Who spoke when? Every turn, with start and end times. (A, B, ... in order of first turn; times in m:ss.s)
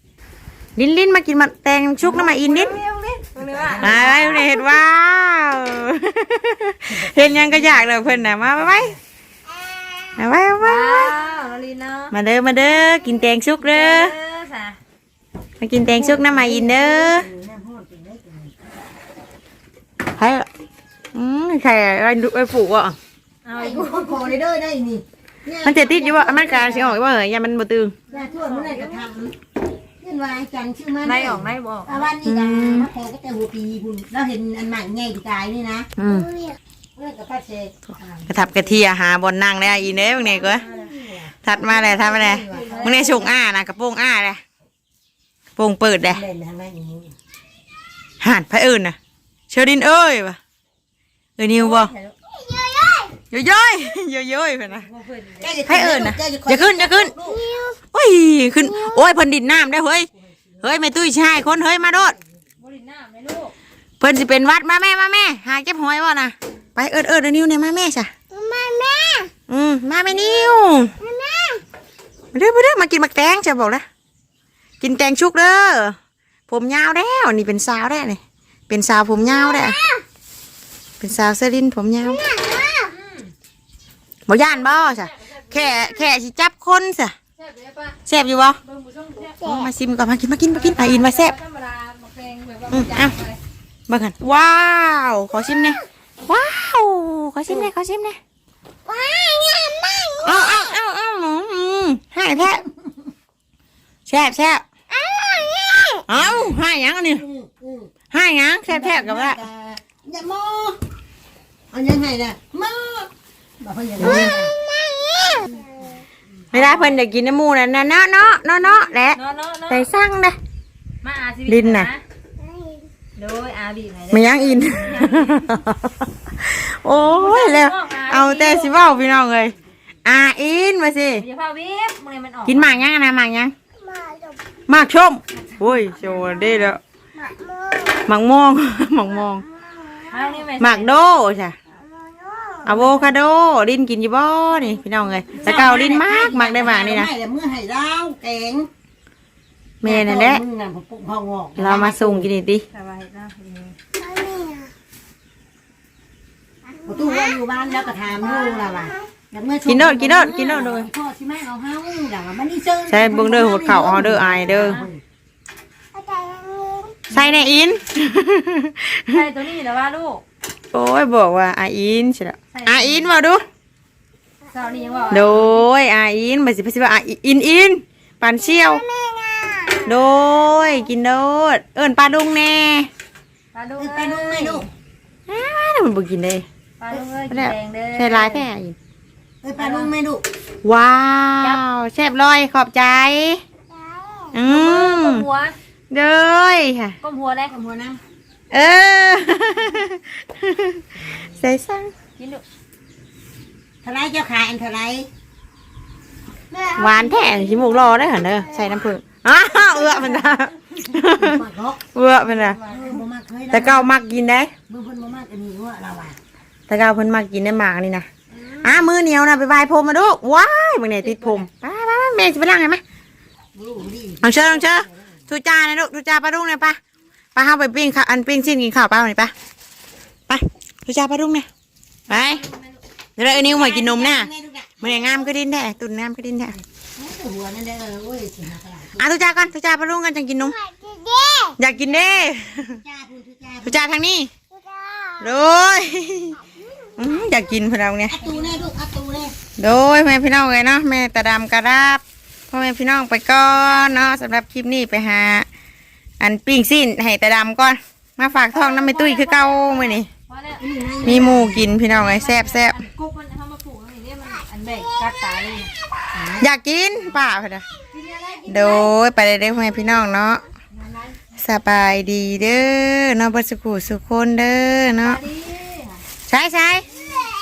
0:00.8-0:02.8 A
0:02.0-0:04.1 B
0:03.3-0:04.4 C
0:03.8-0:08.9 A
0:06.9-0:08.9 C
0:10.2-0:11.2 A
0:10.6-0:12.1 B
0:12.1-0:14.1 A
0:13.6-0:14.8 B
0:15.6-0:17.3 A
0:15.8-0:18.5 C
0:20.2-0:20.5 A
0:21.1-0:23.0 A
0:23.4-0:24.3 B
0:23.5-0:27.0 C
0:25.6-0:27.9 A
0:28.1-0:29.0 B
0:28.1-0:29.4 C
0:30.0-0:35.9 C
0:31.0-0:32.1 B
0:32.2-0:32.9 A
0:36.0-0:36.3 A
0:37.0-0:38.8 C
0:38.3-0:40.6 A
0:40.1-0:43.3 C
0:41.4-0:44.4 A
0:42.5-0:43.2 B
0:45.6-0:46.2 A
0:46.0-0:47.1 C
0:48.2-0:49.0 A
0:49.5-0:50.4 A
0:51.4-0:51.9 A
0:52.3-0:53.1 D
0:53.3-0:54.9 A
0:55.2-0:57.5 C
0:55.7-0:57.1 A
0:57.4-0:57.8 D
0:57.9-1:00.1 A
1:00.2-1:00.8 C
1:00.6-1:02.2 A
1:02.6-1:03.5 B
1:04.0-1:08.1 A
1:08.3-1:09.3 D
1:09.5-1:10.9 A
1:11.0-1:11.6 D
1:12.3-1:13.8 A
1:14.8-1:16.0 A
1:16.5-1:19.8 A
1:19.5-1:20.0 D
1:21.0-1:22.2 A
1:22.2-1:22.9 D
1:24.3-1:27.1 A
1:24.7-1:25.7 B
1:27.4-1:28.0 B
1:28.0-1:28.6 A
1:28.6-1:29.5 B
1:29.4-1:31.4 A
1:30.5-1:33.4 B
1:32.7-1:33.1 A
1:33.9-1:38.2 A
1:38.9-1:40.6 D
1:40.2-1:42.6 A
1:44.0-1:44.6 A
1:44.9-1:46.0 D
1:46.1-1:47.2 A
1:46.1-1:46.5 C
1:47.2-1:47.9 C
1:48.1-1:49.4 A
1:48.7-1:50.8 C
1:51.7-1:54.6 C
1:54.0-1:54.3 A
1:54.6-1:55.6 D
1:56.5-1:57.0 B
1:56.5-2:00.4 A
1:59.1-1:59.9 B
2:01.0-2:02.0 B
2:01.5-2:01.9 A
2:02.5-2:02.8 D
2:03.2-2:05.5 B
2:04.1-2:11.2 A
2:07.1-2:08.7 B
2:11.2-2:12.8 B
2:12.4-2:13.5 A
2:13.9-2:14.3 D
2:14.7-2:16.8 A
2:15.8-2:16.7 B
2:17.4-2:18.0 D
2:18.0-2:19.4 A
2:20.1-2:20.9 B
2:20.6-2:21.6 A
2:22.6-2:27.1 A
2:25.4-2:28.7 C
2:29.8-2:30.4 A
2:29.8-2:32.3 C
2:31.6-2:32.6 A
2:32.7-2:33.8 B
2:34.0-2:34.7 D
2:36.8-2:45.0 C
2:36.9-2:37.4 D
2:39.6-2:40.9 A
2:42.9-2:44.8 A
2:44.5-2:44.9 B
2:46.0-2:47.1 D
2:47.1-2:49.2 A
2:47.1-2:47.4 B
2:49.1-2:50.2 B
2:50.7-2:53.4 A
2:52.5-2:53.1 B
2:54.5-2:55.5 B
2:55.1-2:58.8 A
2:58.6-2:59.9 D
2:59.8-3:02.9 A
3:03.5-3:04.7 B
3:03.8-3:04.7 C
3:05.3-3:06.4 A
3:06.8-3:08.5 B
3:07.3-3:08.8 A
3:09.4-3:10.2 C
3:09.6-3:09.9 B
3:10.6-3:13.4 A
3:14.3-3:15.2 A
3:14.4-3:15.5 B
3:15.9-3:17.0 A
3:17.0-3:17.5 B
3:17.5-3:18.0 C
3:18.5-3:20.8 A
3:21.4-3:21.9 A
3:22.2-3:22.4 B
3:23.8-3:25.1 C
3:26.5-3:27.5 C
3:26.8-3:31.4 A
3:29.8-3:30.2 C
3:31.0-3:33.9 C
3:31.9-3:32.6 A
3:33.5-3:34.5 A
3:34.7-3:36.2 C
3:36.7-3:38.0 A
3:38.4-3:38.7 C
3:38.6-3:42.8 A
3:41.0-3:41.5 C
3:43.5-3:45.1 C
3:44.2-3:46.8 A
3:47.3-3:49.3 A
3:50.3-3:51.5 A
3:52.1-3:52.4 A
3:52.1-3:52.8 C
3:53.2-3:54.3 A
3:53.3-3:55.0 C
3:54.8-3:56.6 A
3:57.0-3:59.4 C
3:59.0-4:00.6 A
4:00.6-4:01.6 D
4:01.6-4:02.8 A
4:01.9-4:03.8 C
4:03.6-4:04.3 A
4:04.6-4:05.2 D
4:05.2-4:06.4 A
4:07.0-4:08.3 A
4:08.1-4:09.4 C
4:09.6-4:15.5 A
4:16.2-4:20.1 A
4:18.5-4:25.7 B
4:20.6-4:21.7 C
4:21.0-4:22.8 A
4:26.1-4:26.5 C
4:26.4-4:27.6 A
4:27.9-4:28.9 B
4:28.5-4:30.4 A
4:30.8-4:31.1 C
4:31.4-4:35.2 A
4:35.0-4:36.0 B
4:36.3-4:36.8 A